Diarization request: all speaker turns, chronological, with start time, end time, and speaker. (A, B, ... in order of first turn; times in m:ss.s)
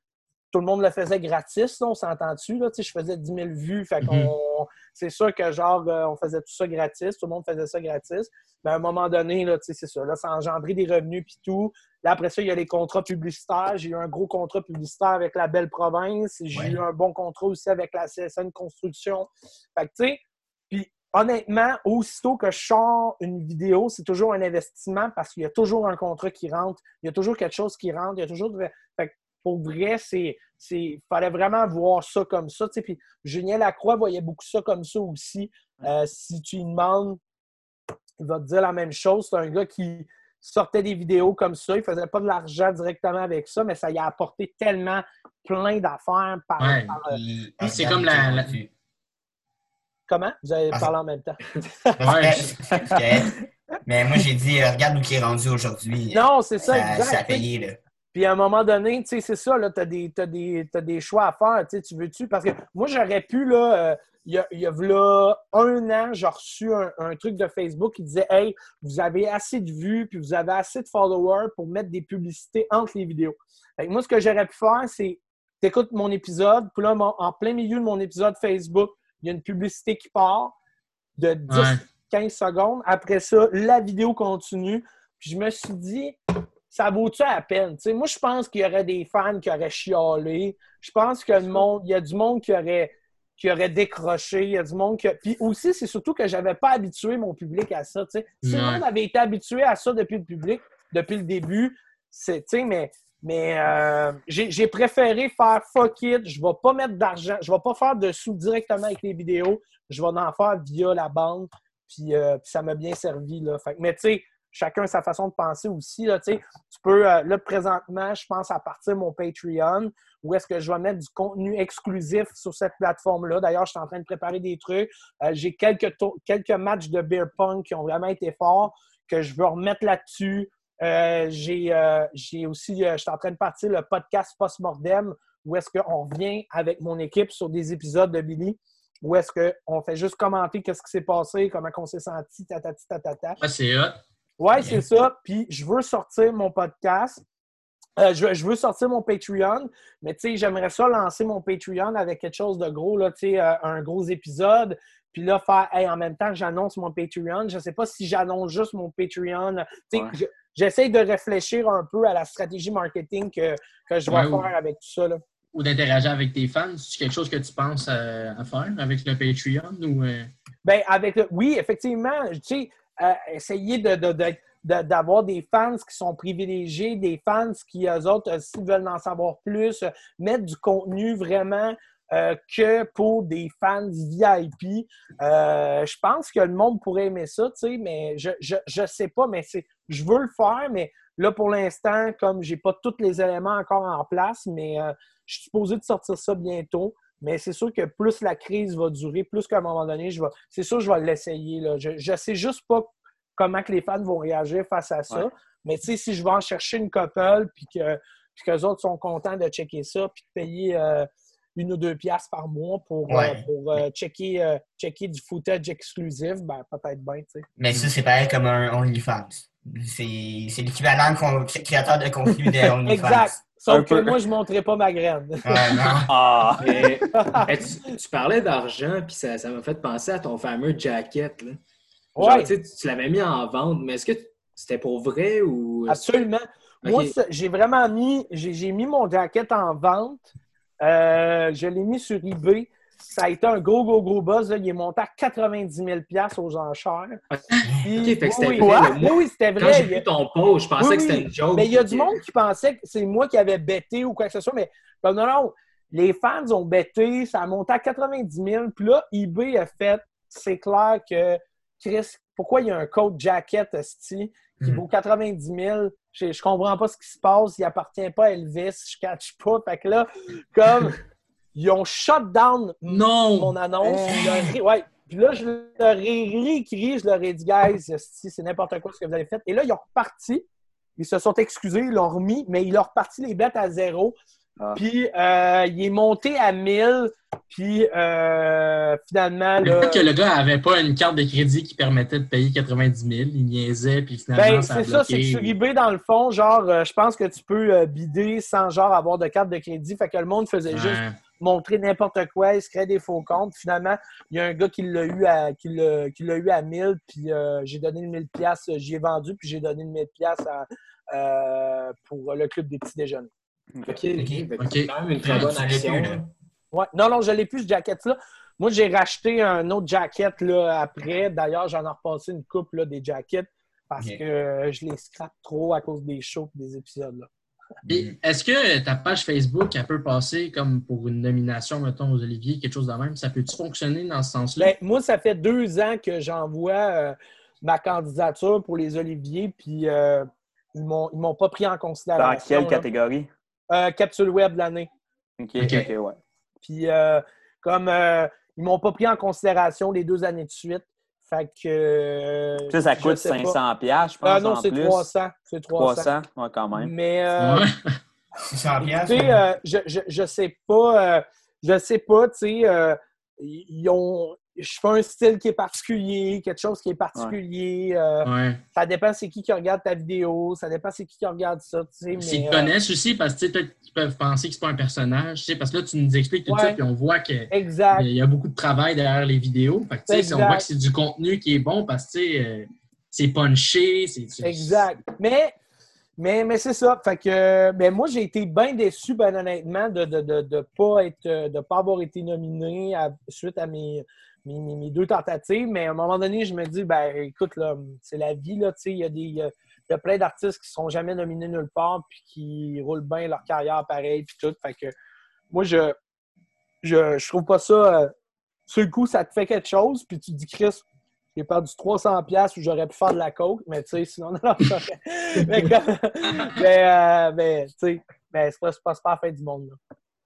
0:00.5-0:20.2 A
0:04.0-0:04.3 B
0:16.5-0:16.8 C
0:20.7-0:37.2 A
0:38.2-0:47.2 A
0:46.6-0:47.0 B
0:47.1-0:48.7 C
0:47.6-0:48.6 B
0:50.1-0:52.0 A
0:52.0-0:57.8 C
0:52.0-0:52.5 B
0:56.1-0:57.4 A
0:58.1-1:20.5 A
1:21.2-1:26.2 A
1:21.5-1:21.8 B
1:26.7-2:23.4 A
1:38.4-1:38.8 B
2:23.4-2:24.0 B
2:24.4-2:27.2 A
2:28.0-2:45.2 A
2:44.1-2:44.5 B
2:45.5-2:50.3 B
2:50.6-3:37.4 A
3:33.1-3:33.4 C
3:37.6-3:43.4 C
3:42.8-3:45.7 A
3:43.7-3:44.2 D
3:45.4-3:46.1 C
3:46.1-3:46.8 D
3:46.6-3:51.6 E
3:47.1-3:47.5 A
3:52.2-3:52.5 A
3:52.2-3:56.0 E
3:55.9-4:00.3 A
3:56.8-3:57.1 E
4:00.8-4:07.2 A
4:07.3-4:12.2 E
4:07.8-4:10.0 A
4:08.6-4:08.9 D
4:10.8-4:31.0 A
4:31.5-4:40.4 A
4:32.9-4:33.5 B
4:34.1-4:34.5 C
4:41.0-4:44.1 A
4:44.7-4:50.0 A
4:49.6-4:55.5 B
4:54.3-5:13.3 A
5:00.7-5:01.2 B
5:13.7-5:14.0 D
5:13.8-5:16.2 E
5:14.2-5:14.4 C
5:14.6-5:15.5 B
5:15.1-5:16.3 C
5:16.7-5:27.3 A
5:27.9-5:34.7 B
5:34.6-5:42.8 A
5:42.2-5:43.3 D
5:43.7-5:44.9 A
5:45.4-5:46.2 D
5:45.6-5:45.9 B
5:46.6-5:53.6 A
5:52.7-5:55.1 D
5:54.2-5:56.1 A
5:55.8-5:56.9 D
5:56.7-5:57.7 A
5:57.4-5:57.7 B
5:58.4-5:59.4 C
5:58.8-6:12.7 A
6:08.2-6:08.6 B
6:12.2-6:24.8 B
6:16.5-6:16.8 A
6:17.5-6:18.1 A
6:20.1-6:20.6 A
6:24.4-6:25.5 A
6:26.2-6:44.9 A
6:45.5-6:46.0 A
6:46.8-6:48.1 A
6:48.7-6:50.8 A
6:51.3-6:59.8 A
6:56.3-6:56.6 B